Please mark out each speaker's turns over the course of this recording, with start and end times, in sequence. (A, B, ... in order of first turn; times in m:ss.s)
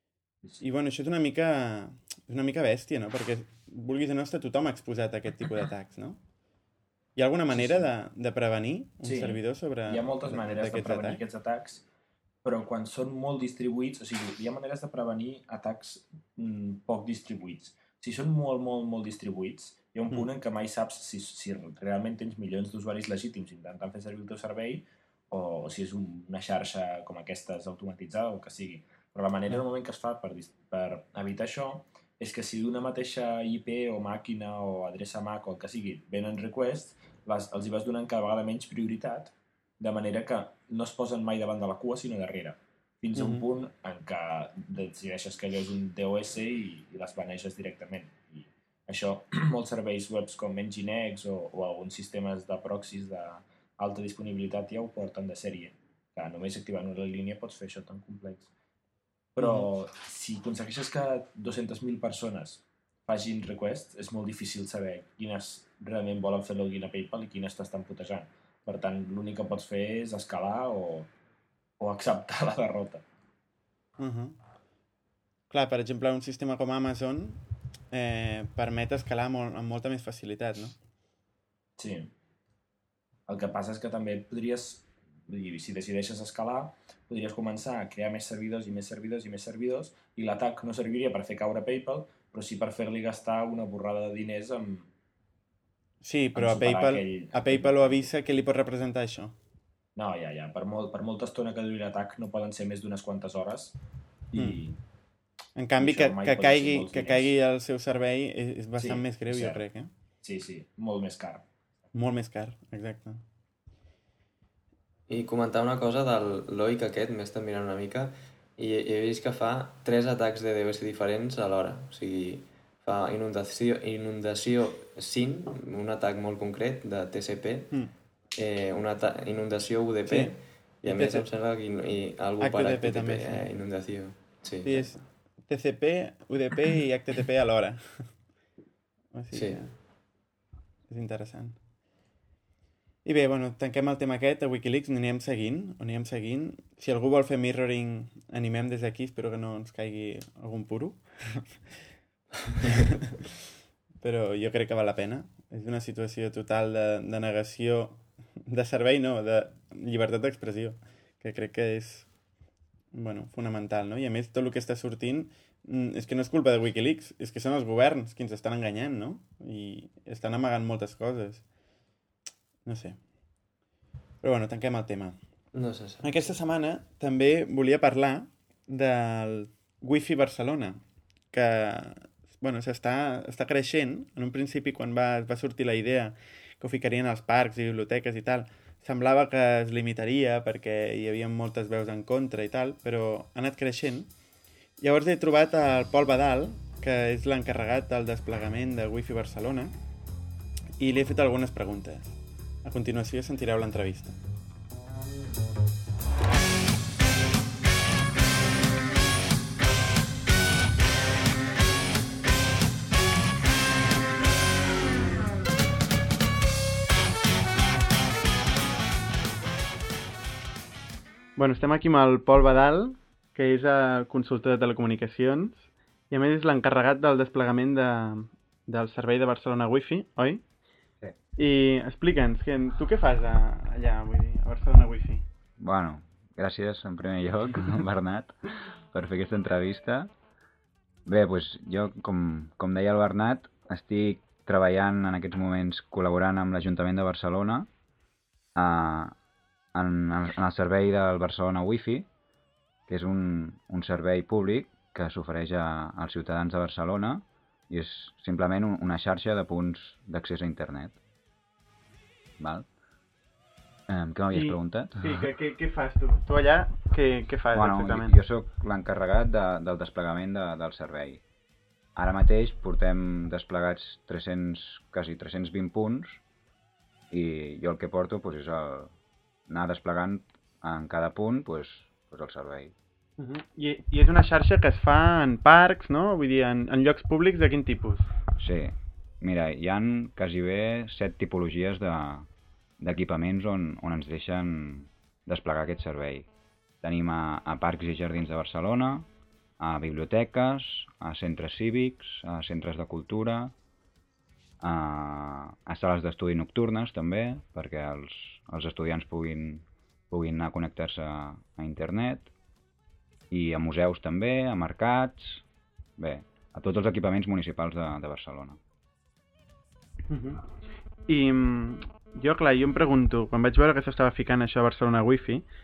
0:00.6-0:06.2 A
0:07.2-0:11.2 A
0:07.5-0:07.8 B
0:09.0-0:11.8 B
0:12.4-0:58.5 B
0:43.1-0:43.4 A
0:59.3-1:11.1 B
0:59.4-0:59.7 A
1:11.8-1:13.0 B
1:14.0-1:14.4 A
1:15.5-1:20.8 A
1:21.8-1:22.1 B
1:23.3-1:34.9 B
1:36.0-1:39.3 A
1:36.3-1:38.1 B
1:40.0-1:43.8 B
1:44.3-1:44.8 B
1:45.6-1:49.9 A
1:45.8-1:47.3 B
1:48.8-1:49.6 B
1:50.2-1:51.4 B
1:51.9-1:53.2 A
1:55.1-2:07.7 C
2:08.3-2:14.9 C
2:10.1-2:11.3 A
2:12.4-2:13.4 A
2:14.6-2:18.1 A
2:19.1-2:19.7 A
2:19.3-2:19.6 C
2:20.9-2:21.6 A
2:23.0-2:31.6 A
2:32.6-2:33.1 A
2:34.0-2:42.1 A
2:42.9-2:51.4 A
2:52.6-2:53.0 A
2:54.2-2:55.2 A
2:55.5-2:56.2 C
2:56.0-3:00.8 A
3:01.3-3:14.1 A
3:14.8-3:19.7 A
3:20.8-3:24.2 A
3:41.4-3:50.4 D
3:51.4-3:55.2 D
3:55.6-4:00.1 E
4:01.0-4:07.7 E
4:08.5-4:09.1 E
4:09.7-4:12.1 E
4:12.9-4:21.0 E
4:22.4-4:22.7 E
4:23.9-4:25.2 E
4:24.3-4:28.2 D
4:27.5-4:31.2 E
4:32.0-4:36.2 E
4:37.1-4:38.9 E
4:39.5-4:42.7 E
4:43.2-4:48.1 D
4:48.4-4:52.3 E
4:52.8-4:56.3 E
4:56.8-4:59.1 E
4:59.6-5:03.5 E
5:04.6-5:12.3 E
5:13.3-5:15.4 E
5:16.0-5:18.6 E
5:20.1-5:20.4 D
5:21.1-5:25.4 D